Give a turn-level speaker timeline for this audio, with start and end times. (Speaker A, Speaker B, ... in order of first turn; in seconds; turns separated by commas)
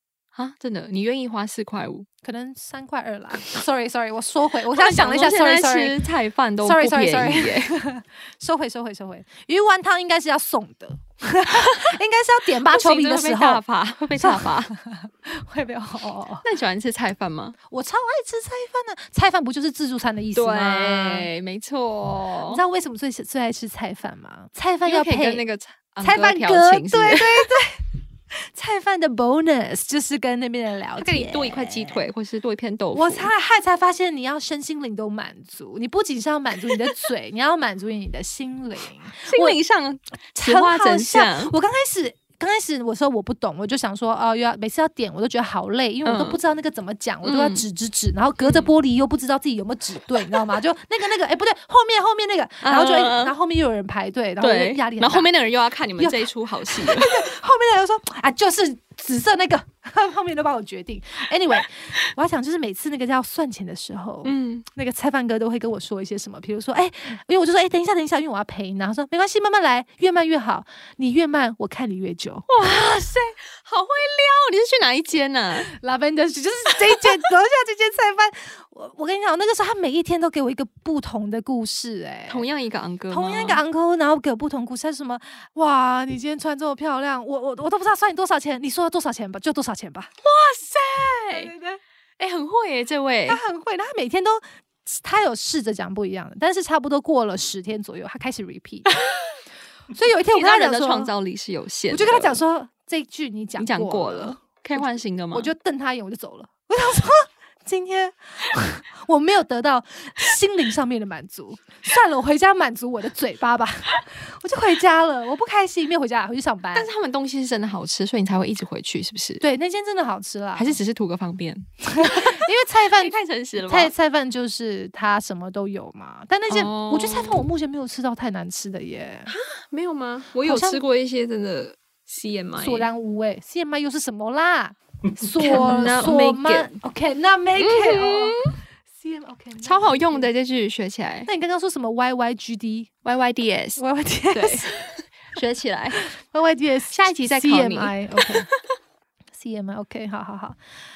Speaker A: 0.3-2.1, Speaker B: 2.2-6.0, Speaker A: 4.7-7.7, Speaker B: 6.6-13.6, Speaker A: 11.5-11.9, Speaker A: 12.7-14.7, Speaker B: 14.2-16.4, Speaker A: 16.4-17.6, Speaker B: 17.7-21.3, Speaker A: 20.4-22.6, Speaker B: 22.5-25.4, Speaker A: 24.9-27.5, Speaker B: 26.0-32.1, Speaker A: 31.0-33.3, Speaker B: 32.9-39.6, Speaker A: 39.3-41.5, Speaker B: 40.3-55.3, Speaker A: 46.0-46.4, Speaker A: 47.2-47.6, Speaker A: 48.4-48.7, Speaker A: 52.6-53.3, Speaker A: 54.4-57.2, Speaker B: 56.0-72.5, Speaker A: 64.2-64.7, Speaker A: 72.5-75.7, Speaker B: 75.7-82.5, Speaker A: 82.3-83.6, Speaker B: 83.1-90.1, Speaker A: 90.2-91.5, Speaker B: 91.3-91.8, Speaker A: 92.2-93.4, Speaker B: 93.3-98.9, Speaker B: 99.9-101.1, Speaker A: 100.3-102.4, Speaker B: 101.9-104.4, Speaker A: 103.6-105.5, Speaker B: 105.3-116.9, Speaker A: 116.7-119.4, Speaker B: 119.4-120.8, Speaker A: 120.6-123.9, Speaker B: 121.9-123.2, Speaker B: 123.7-129.3, Speaker A: 126.5-127.5, Speaker A: 129.3-132.9, Speaker B: 130.4-130.8, Speaker B: 132.6-138.4, Speaker A: 135.3-136.7, Speaker A: 137.6-138.5, Speaker B: 138.9-140.3, Speaker A: 139.6-141.3, Speaker B: 141.3-142.9, Speaker A: 143.1-146.0, Speaker B: 143.8-144.7, Speaker B: 146.0-148.5, Speaker A: 146.9-148.3, Speaker B: 149.3-150.6